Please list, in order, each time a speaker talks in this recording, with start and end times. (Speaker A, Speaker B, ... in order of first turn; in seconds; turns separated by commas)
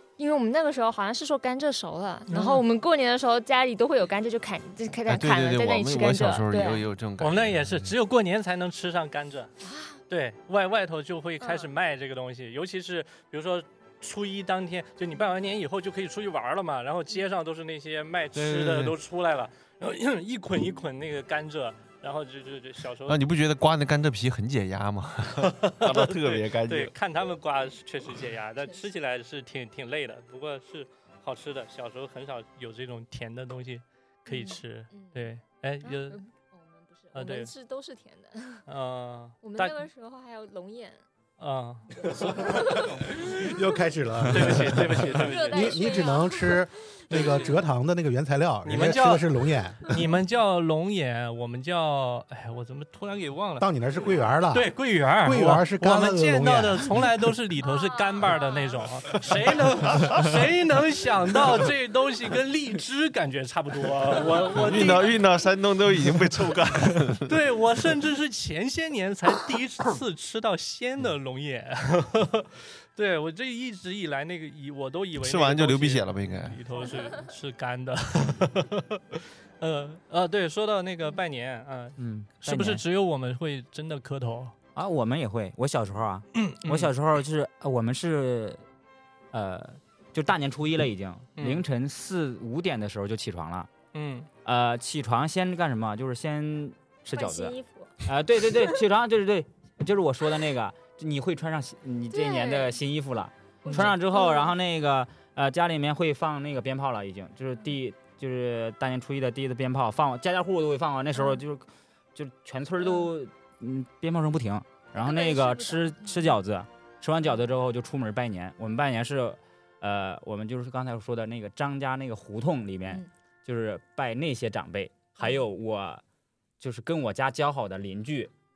Speaker A: 0.2-6.9, Speaker B: 2.3-2.6, Speaker C: 5.1-7.9, Speaker B: 7.2-9.5, Speaker A: 9.6-10.0, Speaker B: 10.1-23.2, Speaker A: 11.4-11.7, Speaker C: 18.4-18.9, Speaker C: 23.1-26.9, Speaker B: 25.4-36.2, Speaker A: 34.3-35.3, Speaker A: 35.8-38.6, Speaker B: 37.1-37.5, Speaker B: 38.7-39.8, Speaker A: 39.4-41.0, Speaker B: 41.4-42.5, Speaker D: 42.2-49.9, Speaker A: 42.4-43.0, Speaker B: 44.3-45.9, Speaker A: 45.2-47.3, Speaker B: 47.1-47.4, Speaker B: 48.6-49.3, Speaker B: 49.8-53.7, Speaker D: 53.6-57.1, Speaker B: 54.5-65.2, Speaker A: 57.6-58.9, Speaker C: 64.5-67.4, Speaker B: 67.3-84.5, Speaker C: 75.2-76.6, Speaker A: 76.8-77.1, Speaker E: 82.0-82.8, Speaker E: 84.8-88.6, Speaker B: 86.3-86.9, Speaker E: 89.3-93.7, Speaker B: 91.4-91.7, Speaker B: 93.9-94.3, Speaker E: 94.5-126.0, Speaker A: 97.1-98.7, Speaker A: 102.1-102.8, Speaker A: 103.6-104.5, Speaker B: 103.7-103.9, Speaker A: 111.2-111.4, Speaker A: 115.0-116.3, Speaker A: 125.2-125.5, Speaker E: 126.6-128.3